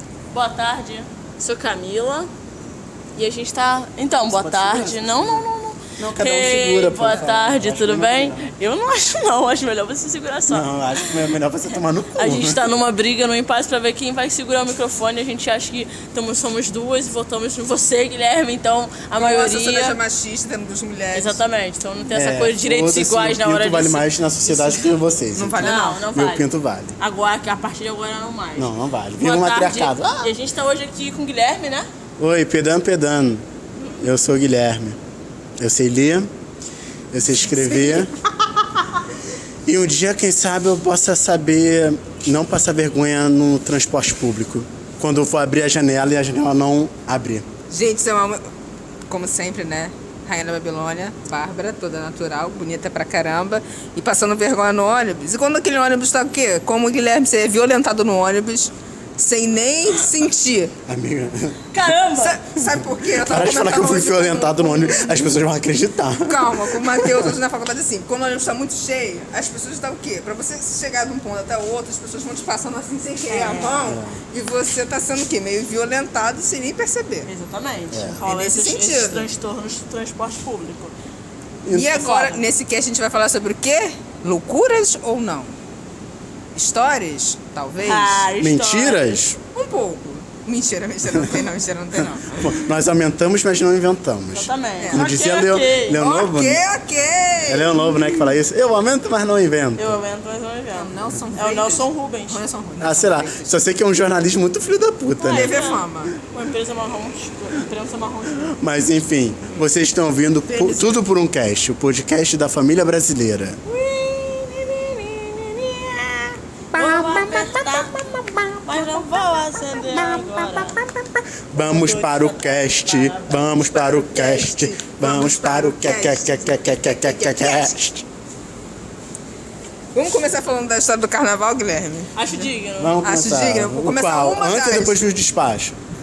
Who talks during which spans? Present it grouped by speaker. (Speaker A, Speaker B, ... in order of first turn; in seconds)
Speaker A: 0.3-2.3, 3.2-11.2, 12.2-20.0, 21.1-24.8, 25.6-26.4, 27.0-31.9, 61.7-62.4, 73.3-73.9, 77.3-80.9, 81.9-82.4, 87.8-89.1, 94.3-96.0, 99.8-102.4, 105.2-108.6, 113.7-118.0, 118.7-120.8, 121.5-123.6, 132.2-133.0
Speaker B: 4.3-5.4, 6.0-8.5, 10.5-12.7, 22.1-27.0, 28.6-30.3, 32.2-33.4, 34.0-35.0, 35.6-36.3, 37.1-38.1, 39.7-47.5, 60.9-61.9, 62.7-67.3, 73.9-74.2, 77.9-78.2, 81.6-82.0, 88.4-89.4, 92.3-96.6, 97.5-100.0, 102.8-105.5, 108.5-113.6, 121.5-128.1, 132.8-135.8
Speaker C: 19.2-21.4, 25.3-26.0, 47.7-48.4, 49.1-60.7, 62.2-65.1, 66.2-77.3, 78.3-79.3, 81.7-85.5, 86.5-88.3, 89.5-92.6, 94.8-95.0, 96.0-98.1, 100.7-103.6, 105.3-106.2, 110.5-111.0, 116.8-119.2, 120.0-120.9, 123.7-127.8, 129.9-132.5, 133.0-135.0